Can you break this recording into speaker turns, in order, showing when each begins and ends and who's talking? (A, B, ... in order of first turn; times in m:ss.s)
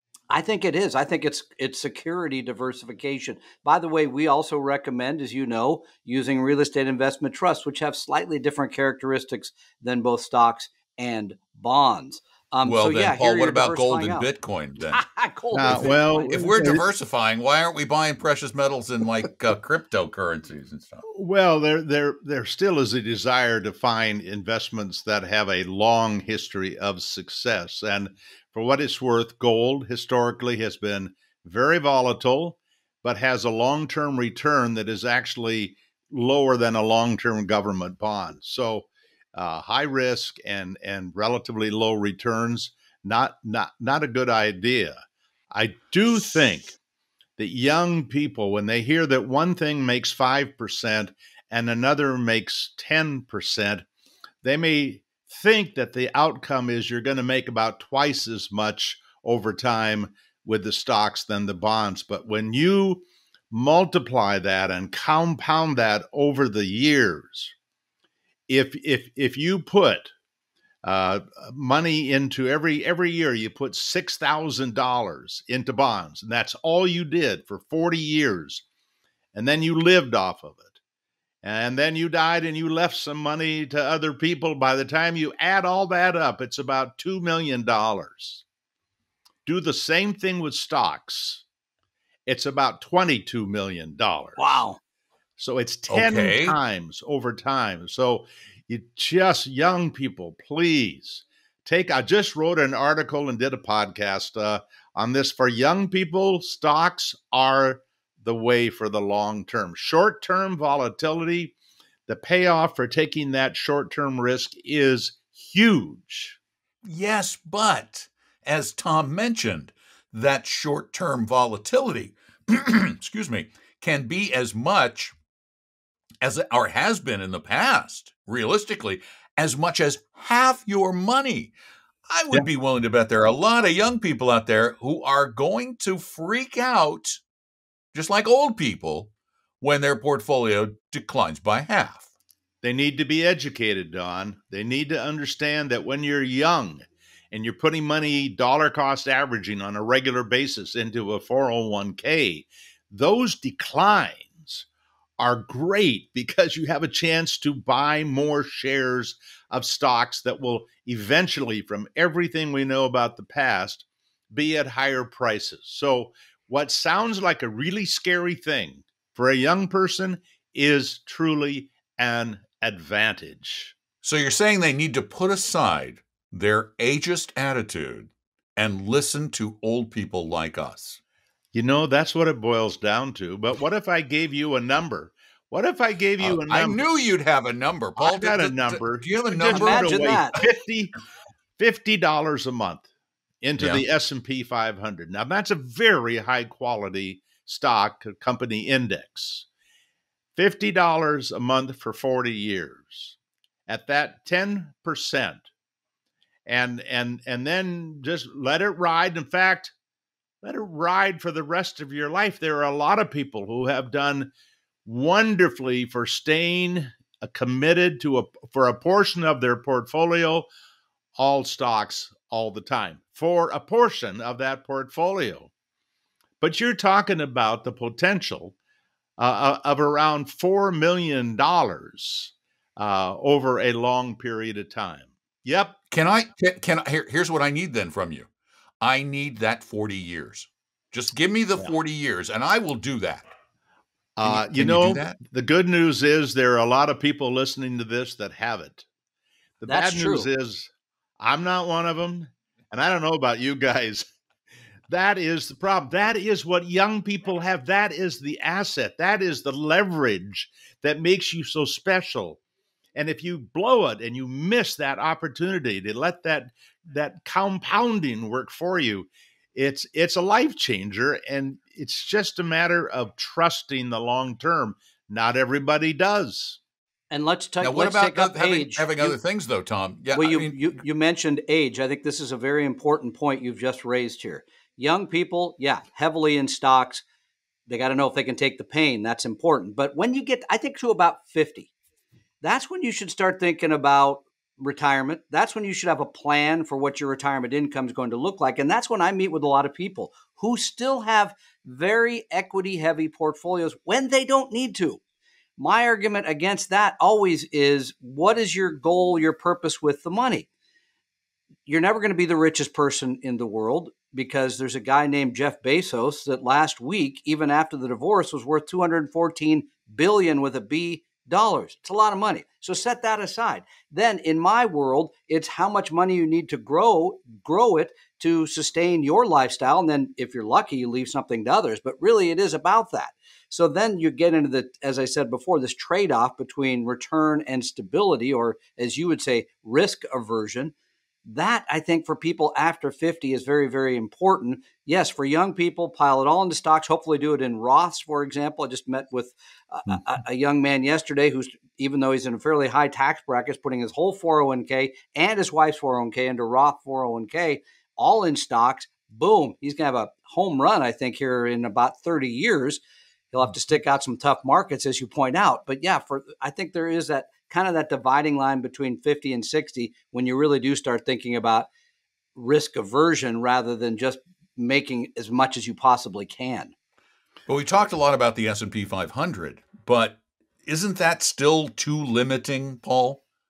0:00.3-0:14.3 A
0:12.6-0:15.0 B
0:14.8-0:16.7 A
0:15.5-0:16.8 C
0:15.6-0:21.0 B
0:21.1-0:45.0 C
0:45.5-0:46.8 C
0:47.4-0:53.8 C
0:54.4-1:07.5 C
1:08.5-1:10.1 C
1:10.8-1:18.6 C
1:19.3-1:20.8 C
1:21.4-1:28.4 C
1:29.4-1:31.4 C
1:32.3-1:34.6 C
1:34.4-1:34.8 A
1:35.4-1:51.5 C
1:35.9-1:36.6 B
1:52.1-1:56.4 C
1:56.8-2:05.1 B
2:06.2-2:11.5 B
2:12.1-2:17.2 B
2:17.9-2:19.1 B
2:19.6-2:22.0 B
2:22.6-2:34.6 C
2:35.2-2:53.8 C
2:54.0-3:01.0 B
3:01.5-3:06.9 C
3:06.2-3:10.2 B
3:08.0-3:10.9 C
3:09.5-3:10.3 A
3:11.6-3:12.8 C
3:13.4-3:19.5 C
3:13.6-3:13.8 B
3:20.4-3:23.2 C
3:23.7-3:25.4 C
3:26.5-3:29.7 C
3:30.4-3:34.3 C
3:34.8-3:40.5 C
3:41.2-3:45.5 C
3:46.4-3:48.5 C
3:49.2-3:55.8 C
3:55.9-3:58.3 B
3:58.8-4:03.3 B
4:04.2-4:08.8 C
4:04.2-4:05.2 B
4:09.6-4:14.0 C
4:09.7-4:10.3 A
4:14.9-4:22.4 C
4:22.9-4:36.6 C
4:37.1-4:39.2 A
4:37.6-4:40.6 B
4:40.1-4:47.0 A
4:47.7-4:51.7 A
4:52.4-5:05.0 A
5:05.6-5:10.5 A
5:11.6-5:40.7 A
5:41.2-6:11.7 A
6:12.3-6:16.7 A
6:17.5-6:23.2 B